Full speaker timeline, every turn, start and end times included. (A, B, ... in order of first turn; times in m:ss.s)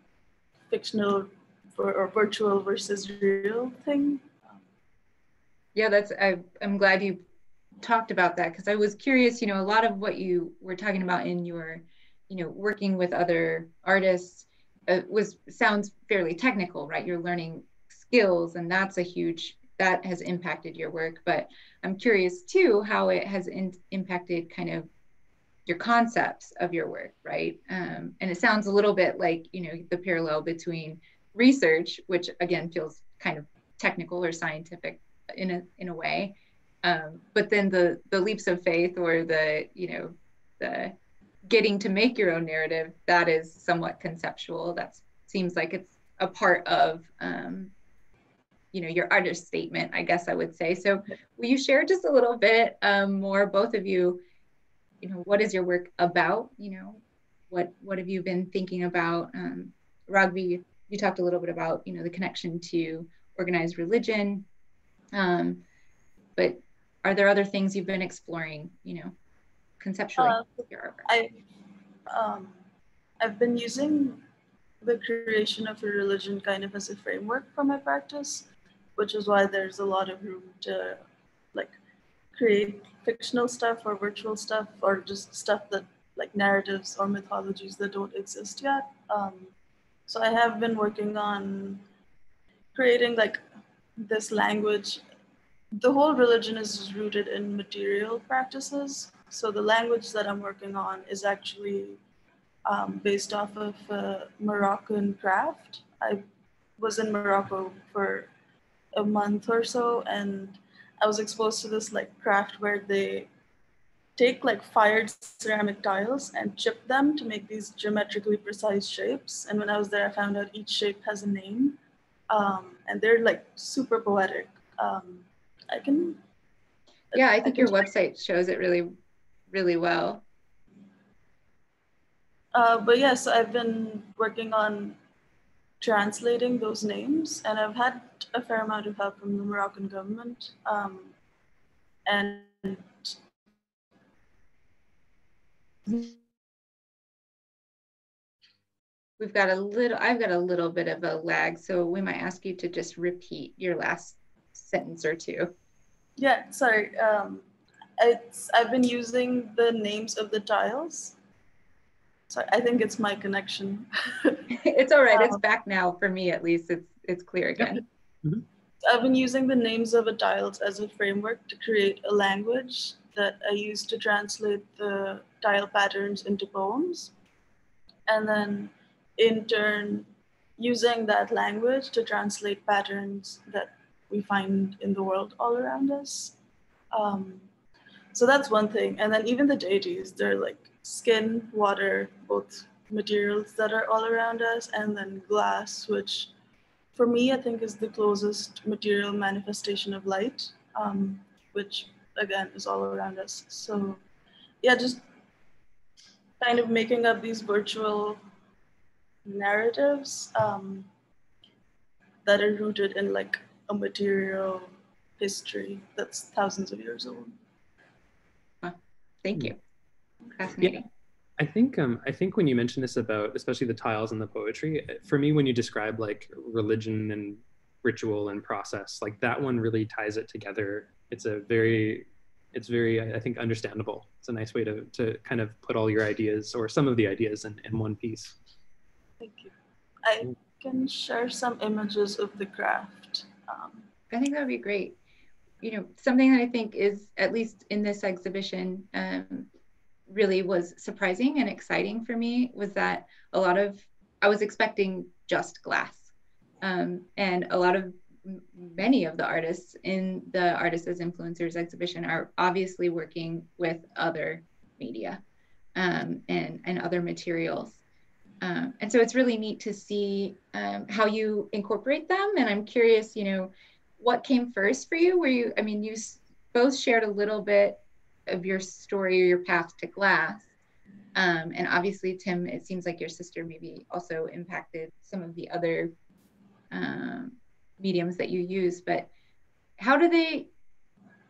0:00.7-0:04.6 A
0:05.8-0:07.2 B
0:07.8-0:24.9 B
0:25.7-0:47.7 B
0:48.7-0:54.2 B
0:55.0-1:04.5 B
1:05.1-1:05.6 B
1:06.4-1:09.1 B
1:09.8-1:11.1 B
1:10.2-1:11.4 A
1:12.1-1:12.6 A
1:13.2-1:14.2 A
1:14.8-1:21.0 A
1:22.3-1:29.5 A
1:30.1-1:31.8 A
1:32.8-1:33.4 A
1:34.0-1:35.0 A
1:35.7-1:42.0 A
1:42.7-1:46.2 A
1:46.8-1:48.3 A
1:48.9-1:53.3 A
1:54.2-2:01.8 A
2:02.3-2:06.2 A
2:07.1-2:07.8 A
2:07.1-2:08.9 B
2:09.5-2:10.2 B
2:12.5-2:15.0 A
2:15.8-2:21.1 A
2:22.1-2:23.2 A
2:29.2-2:35.5 B
2:36.2-2:37.4 A
2:38.0-2:41.2 A
2:42.3-2:44.5 A
2:44.5-2:47.8 B
2:45.1-2:45.4 A
2:47.6-2:48.4 C
2:48.8-2:57.1 A
2:58.1-3:06.4 A
3:06.9-3:07.4 A
3:08.1-3:16.3 A
3:17.0-3:24.0 A
3:24.6-3:25.1 A
3:26.4-3:28.2 A
3:29.2-3:30.9 A
3:32.3-3:37.4 A
3:38.6-3:39.6 B
3:40.3-3:40.9 B
3:41.4-3:58.4 C
3:59.2-4:03.8 A
4:04.1-4:05.0 B
4:05.6-4:09.5 B
4:10.1-4:16.1 B
4:16.6-4:25.2 B
4:25.8-4:27.8 B
4:28.4-4:40.5 B
4:41.2-4:45.9 B
4:46.7-4:49.1 B
4:49.8-4:50.5 B